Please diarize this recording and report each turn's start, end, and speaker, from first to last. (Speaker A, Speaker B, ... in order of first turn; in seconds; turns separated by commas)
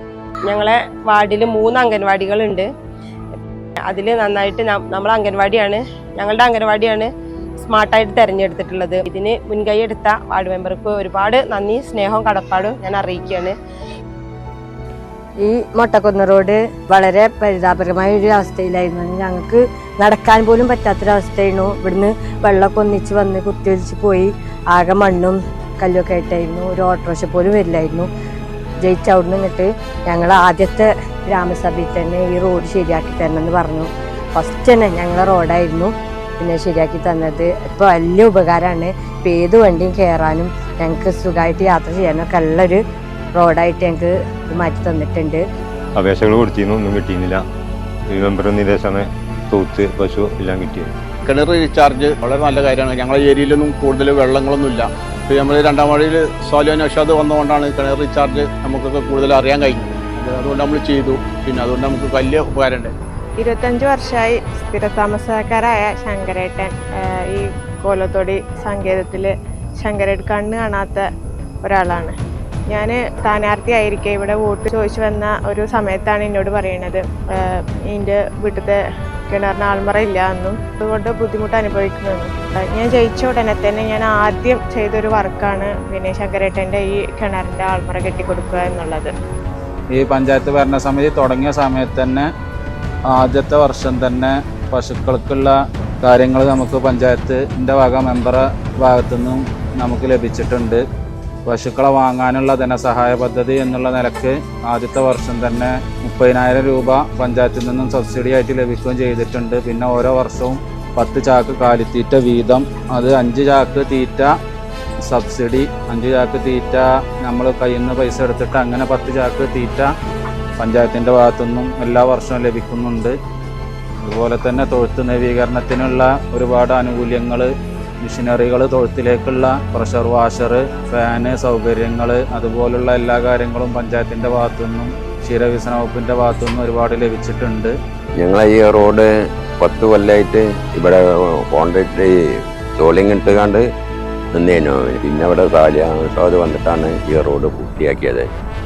Speaker A: 0.5-2.7, Speaker A: 3.9-13.6, Speaker B: 15.4-28.1, Speaker B: 28.8-42.8, Speaker B: 43.3-45.4, Speaker C: 46.0-47.4, Speaker C: 48.1-50.9, Speaker D: 51.2-62.9, Speaker E: 63.4-66.7, Speaker E: 67.3-71.1, Speaker E: 71.6-72.1, Speaker E: 72.7-77.0, Speaker E: 77.9-78.8, Speaker E: 79.3-89.1, Speaker F: 89.9-92.3, Speaker F: 93.1-100.8, Speaker F: 101.5-114.3, Speaker F: 115.0-119.9, Speaker F: 120.6-123.2, Speaker F: 124.0-137.8, Speaker G: 138.2-139.1, Speaker G: 139.6-142.2, Speaker G: 142.8-143.6, Speaker G: 144.3-148.3